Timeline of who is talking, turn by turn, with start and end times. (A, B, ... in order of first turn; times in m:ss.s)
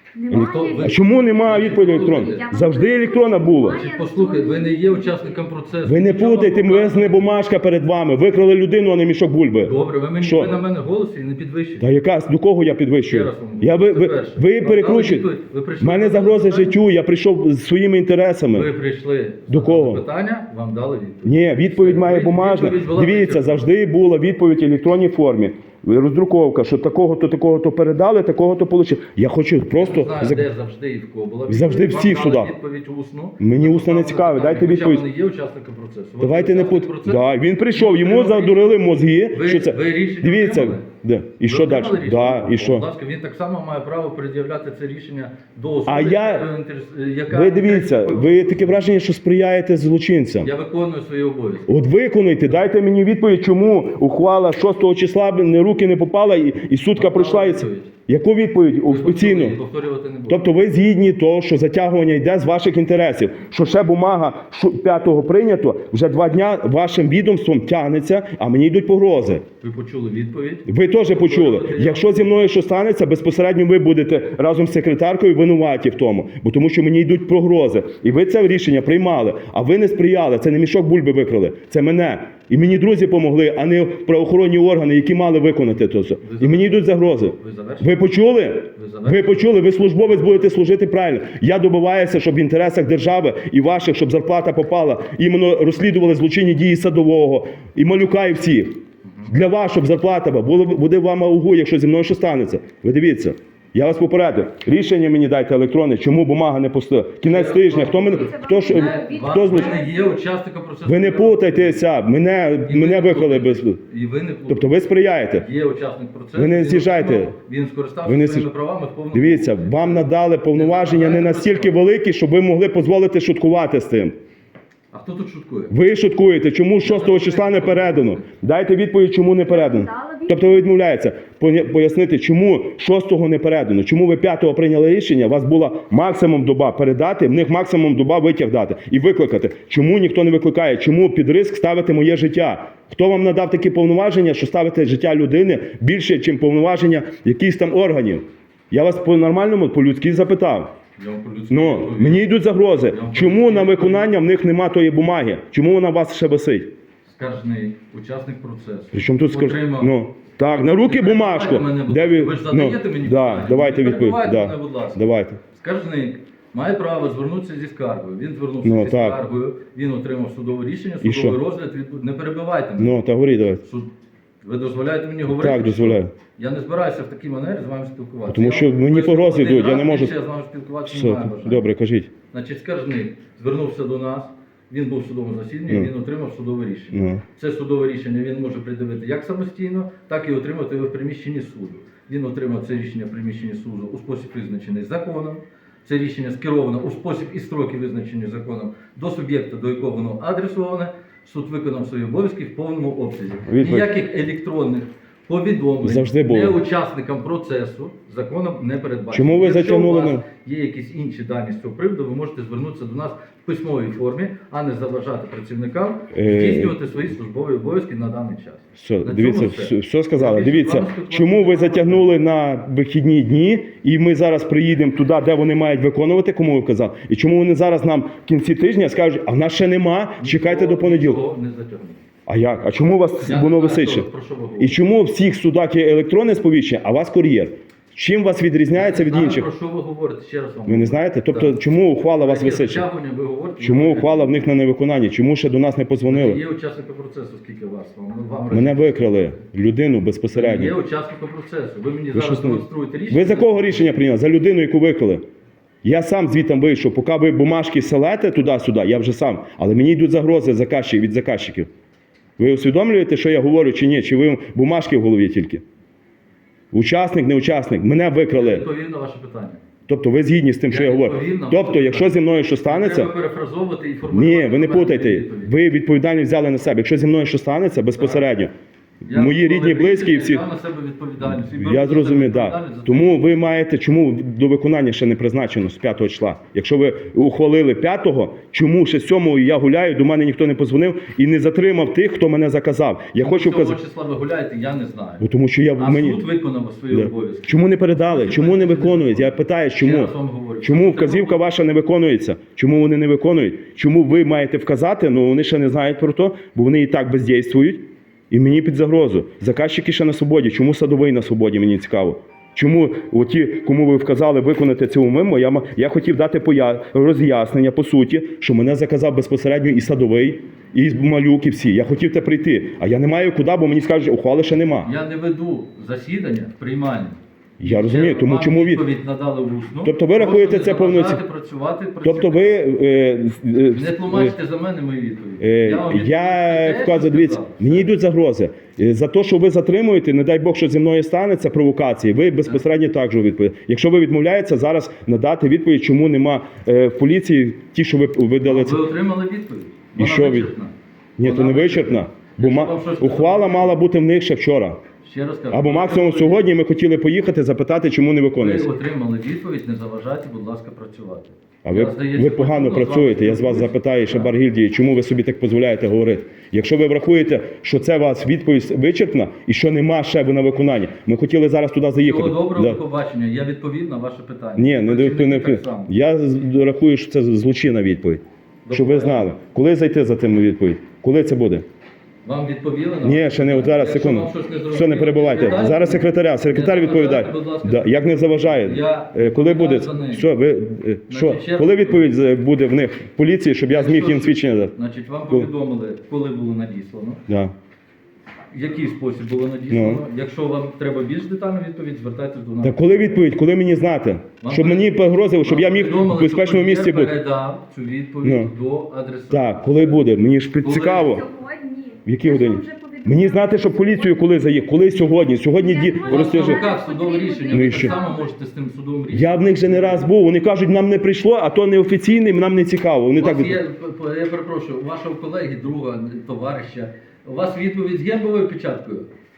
0:00.2-0:05.4 A
0:00.3-0:02.5 B
0:00.3-0:03.8 C
0:03.6-0:07.3 B
0:05.8-0:10.6 C
0:09.6-0:11.9 B
0:11.8-0:18.7 C
0:13.0-0:16.8 B
0:18.5-0:23.7 B
0:19.5-0:20.0 C
0:21.2-0:30.5 C
0:29.8-0:38.7 B
0:31.5-0:32.5 C
0:33.4-0:35.1 C
0:36.2-0:42.9 C
0:39.3-0:40.9 B
0:41.4-0:48.8 B
0:45.9-0:46.5 C
0:47.3-0:50.5 C
0:50.4-0:51.7 B
0:51.7-0:59.6 C
0:57.0-0:57.9 B
0:58.9-1:00.4 B
1:00.3-1:09.4 C
1:09.6-1:12.3 B
1:10.7-1:49.8 C
1:26.2-1:28.0 B
1:28.8-1:29.5 B
1:39.0-1:39.3 B
1:47.2-1:51.9 B
1:47.8-1:50.2 A
1:50.8-1:53.8 C
1:52.6-1:54.7 B
1:54.5-1:55.5 C
1:55.4-2:01.8 B
1:56.4-1:57.3 C
1:58.0-1:58.5 C
1:59.1-2:04.2 C
2:04.9-2:05.7 B
2:05.7-2:30.8 C
2:06.8-2:08.2 B
2:09.5-2:10.7 A
2:31.0-2:34.3 B
2:31.5-2:36.7 C
2:37.1-2:39.9 B
2:38.9-2:45.4 C
2:40.7-2:45.0 B
2:45.5-2:53.0 B
2:48.6-2:49.2 C
2:51.0-2:51.4 C
2:52.8-2:53.6 C
2:53.6-2:53.9 B
2:54.4-3:01.7 B
2:55.3-2:56.1 C
2:58.3-3:00.2 C
3:00.8-3:02.1 C
3:02.3-3:42.1 B
3:06.9-3:07.2 C
3:23.5-3:23.9 C
3:25.8-3:26.6 C
3:29.1-3:30.2 C
3:36.1-3:36.8 C
3:38.8-3:51.2 C
3:50.2-3:52.0 B
3:52.3-3:54.1 C
3:53.2-3:54.8 B
3:54.6-3:59.5 C
3:58.7-4:04.5 B
4:00.7-4:02.9 C
4:03.6-4:06.4 C
4:06.0-4:09.2 B
4:08.5-4:10.8 C
4:10.3-4:13.9 B
4:12.1-4:15.2 C
4:15.8-4:21.7 C
4:22.4-4:25.6 C
4:26.7-4:28.7 C
4:28.3-4:29.6 B
4:29.9-4:33.1 C
4:30.7-4:35.5 B
4:34.1-4:38.5 C
4:38.0-4:38.3 B
4:39.1-4:40.4 C
4:39.1-4:43.2 B
4:41.3-4:53.8 C
4:53.2-4:55.2 B
4:55.2-4:56.3 C
4:55.8-5:01.4 B
4:56.9-5:24.9 C
5:24.8-5:32.7 B
5:27.6-5:28.9 C
5:29.8-5:31.2 C
5:32.0-5:34.4 C
5:33.7-5:37.9 B
5:35.4-5:48.8 C
5:48.4-5:53.8 B
5:50.0-5:50.5 C
5:51.2-5:54.8 C
5:55.0-5:56.5 B
5:55.5-5:58.7 C
5:58.4-6:04.3 B
6:01.6-6:12.8 C
6:12.0-6:15.9 B
6:14.6-6:21.6 C
6:18.7-6:19.4 B
6:22.2-6:30.3 B
6:23.0-6:34.7 C
6:31.1-6:32.1 B
6:33.7-6:37.2 B
6:37.3-6:37.5 C
6:38.5-6:43.1 B
6:39.7-6:40.0 C
6:42.6-6:47.2 C
6:44.4-6:50.1 B
6:48.2-6:48.5 C
6:49.3-6:51.3 C
6:50.6-6:51.2 B
6:51.0-6:54.6 A
6:52.1-6:56.7 C
6:55.5-6:58.3 A
6:56.0-7:00.1 B
6:57.5-6:58.0 C
6:59.1-7:03.6 C
7:03.2-7:09.1 B